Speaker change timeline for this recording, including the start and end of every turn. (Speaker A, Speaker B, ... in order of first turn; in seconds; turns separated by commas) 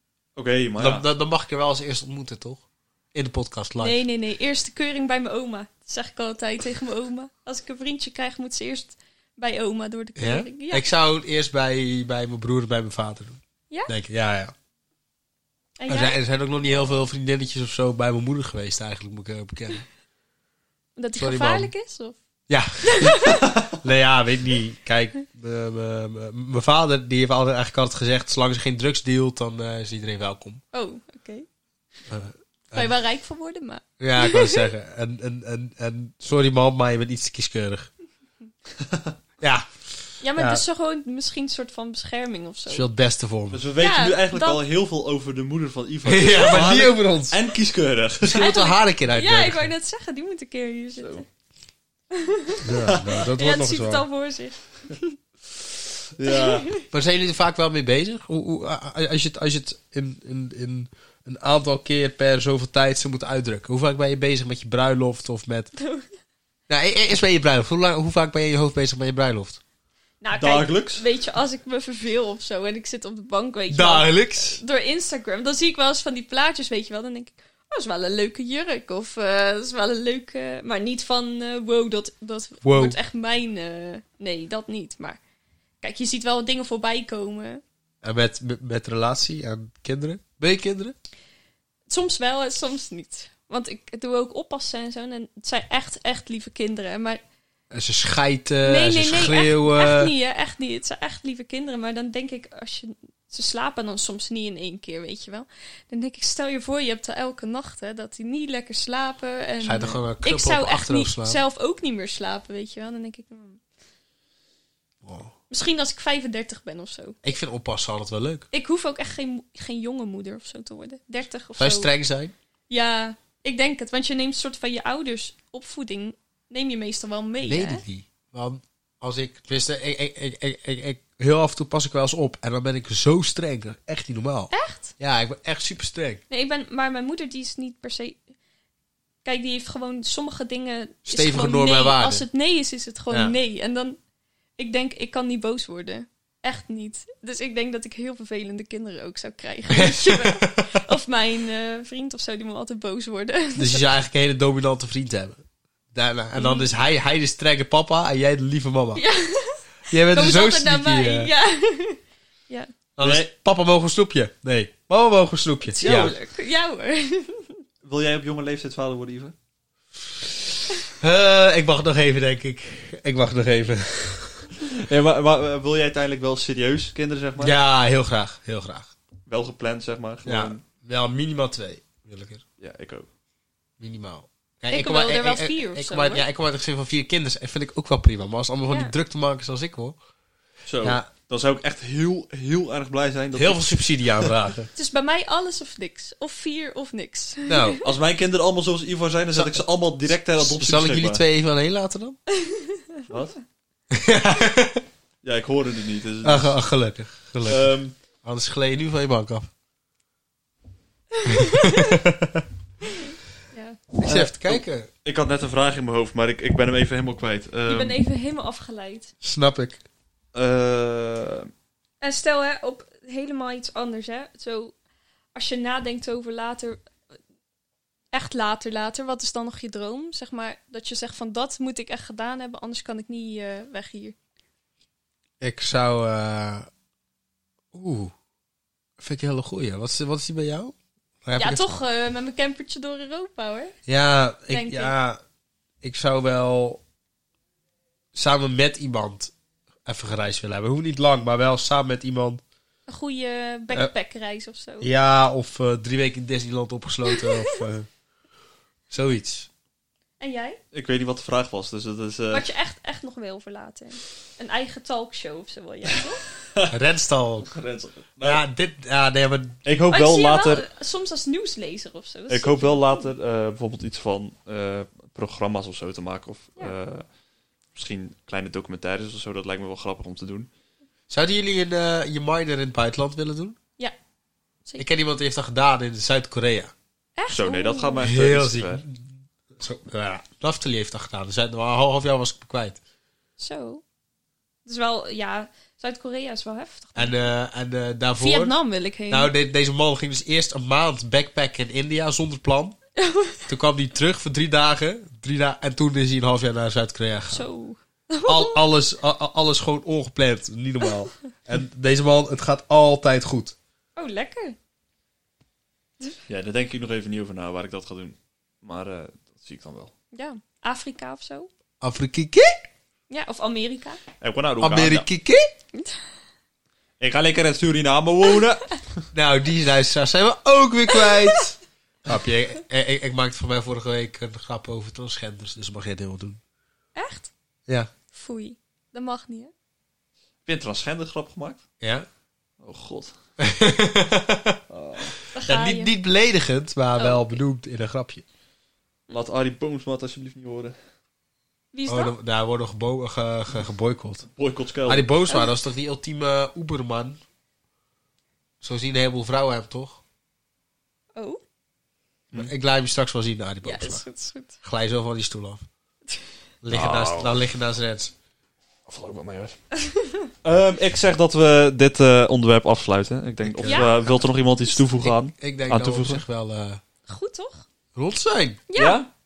Speaker A: 0.4-1.1, Speaker B: 0.8-4.0, Speaker C: 3.8-10.9, Speaker B: 10.2-14.5, Speaker C: 15.8-16.2, Speaker B: 15.9-19.9, Speaker C: 21.0-22.2, Speaker B: 21.2-21.7, Speaker B: 22.5-30.6, Speaker C: 22.8-23.5, Speaker C: 30.7-31.5, Speaker B: 32.1-33.0, Speaker C: 32.7-34.6, Speaker B: 34.0-37.9, Speaker A: 38.8-39.1, Speaker B: 39.4-40.6, Speaker C: 40.2-42.9, Speaker B: 42.7-43.6, Speaker A: 43.5-48.5, Speaker C: 43.8-44.6, Speaker B: 46.0-47.4, Speaker B: 48.2-49.7, Speaker C: 48.4-51.3, Speaker A: 51.0-51.2, Speaker C: 52.1-52.7, Speaker B: 52.6-54.1, Speaker A: 52.9-53.3, Speaker C: 53.3-55.2, Speaker A: 56.2-56.7, Speaker C: 56.3-56.8, Speaker B: 56.9-65.7, Speaker C: 65.8-66.1, Speaker B: 66.7-69.6, Speaker C: 70.2-85.2, Speaker A: 70.3-71.0, Speaker B: 73.7-74.6, Speaker B: 82.6-83.0, Speaker C: 85.8-87.6, Speaker B: 88.0-90.9, Speaker C: 91.9-97.2, Speaker B: 97.7-100.1, Speaker C: 98.6-113.6, Speaker B: 109.6-111.4, Speaker B: 115.0-115.3, Speaker C: 115.5-117.2, Speaker B: 117.2-118.5, Speaker C: 118.5-121.9, Speaker B: 121.6-122.3, Speaker C: 122.7-127.8, Speaker B: 127.5-136.2, Speaker C: 134.5-134.9, Speaker C: 136.3-138.2, Speaker C: 139.2-144.0, Speaker B: 141.1-142.2, Speaker C: 144.6-153.9, Speaker B: 149.7-150.8, Speaker B: 153.6-155.4, Speaker B: 155.9-159.0, Speaker C: 156.4-156.7, Speaker C: 158.9-162.7, Speaker B: 159.9-161.3, Speaker B: 163.0-166.1, Speaker A: 163.0-163.3, Speaker C: 165.7-167.6, Speaker A: 165.8-166.2, Speaker A: 167.8-169.3, Speaker B: 171.0-174.5, Speaker A: 174.6-177.6, Speaker B: 177.4-178.9, Speaker A: 179.3-180.6, Speaker B: 180.2-182.4, Speaker A: 182.6-183.1, Speaker B: 183.8-190.0, Speaker C: 184.7-186.2, Speaker A: 190.7-194.3, Speaker B: 190.8-191.1, Speaker B: 193.3-194.7, Speaker C: 194.8-197.8, Speaker B: 197.5-197.8, Speaker A: 197.8-201.2, Speaker B: 199.3-199.6, Speaker B: 200.4-202.2, Speaker C: 202.3-203.0, Speaker A: 203.1-203.4, Speaker B: 203.9-204.8, Speaker A: 205.2-206.6, Speaker B: 206.2-207.7, Speaker A: 207.5-207.9, Speaker B: 208.2-209.5, Speaker C: 211.2-212.0, Speaker B: 211.3-212.5, Speaker C: 212.9-213.8, Speaker B: 214.0-214.9, Speaker A: 214.0-218.0, Speaker C: 217.7-219.1, Speaker B: 219.2-219.8, Speaker A: 220.3-221.5, Speaker C: 222.0-224.8, Speaker C: 225.3-226.8, Speaker C: 228.1-234.2, Speaker B: 235.4-236.7, Speaker B: 237.7-238.1, Speaker B: 239.0-241.7, Speaker C: 241.4-243.7, Speaker B: 243.9-245.2, Speaker C: 244.5-244.9, Speaker B: 245.8-246.8, Speaker B: 248.1-249.3, Speaker B: 249.8-252.4, Speaker C: 252.9-254.9, Speaker B: 254.8-257.9, Speaker C: 257.1-257.6, Speaker B: 258.9-259.5, Speaker C: 260.2-260.6, Speaker A: 260.7-262.5, Speaker C: 262.3-266.2, Speaker B: 266.7-267.5, Speaker A: 267.5-268.4, Speaker B: 268.2-269.6, Speaker A: 269.6-270.6, Speaker C: 269.9-273.1, Speaker A: 272.3-277.1, Speaker A: 277.8-280.5, Speaker B: 281.1-283.6, Speaker B: 284.8-286.7, Speaker C: 287.2-288.1, Speaker A: 287.3-288.8, Speaker B: 288.0-292.8, Speaker C: 293.4-293.8, Speaker C: 294.7-297.3, Speaker B: 297.0-298.5, Speaker C: 298.2-299.3, Speaker B: 299.1-302.8, Speaker C: 303.0-303.4, Speaker B: 303.5-307.5, Speaker C: 307.3-308.6, Speaker B: 308.3-313.6, Speaker C: 314.0-314.6, Speaker A: 316.3-319.9, Speaker C: 320.1-321.5, Speaker B: 321.8-322.6, Speaker C: 323.1-324.0, Speaker A: 324.2-325.1, Speaker B: 324.6-325.5, Speaker A: 327.0-328.8, Speaker B: 329.1-336.4, Speaker C: 337.0-337.3, Speaker C: 338.1-339.5, Speaker A: 340.5-341.6, Speaker B: 341.8-342.1, Speaker A: 342.6-343.1, Speaker B: 343.4-344.6, Speaker A: 344.7-345.2, Speaker C: 345.3-345.9, Speaker B: 345.4-348.2, Speaker C: 347.0-347.4, Speaker A: 349.1-350.8, Speaker C: 351.7-352.1, Speaker B: 351.9-354.3, Speaker A: 354.4-355.1, Speaker B: 354.9-357.2, Speaker B: 358.6-360.0, Speaker C: 361.2-361.4, Speaker B: 362.3-364.1, Speaker C: 363.6-364.6, Speaker B: 364.6-365.6, Speaker B: 366.6-368.1, Speaker A: 366.7-367.5, Speaker A: 368.9-369.6, Speaker C: 369.8-370.3, Speaker A: 370.4-376.2, Speaker B: 373.4-374.1, Speaker C: 373.6-374.0, Speaker B: 374.8-376.8, Speaker C: 377.1-377.7, Speaker B: 377.9-378.6, Speaker C: 378.7-379.0, Speaker A: 378.8-379.1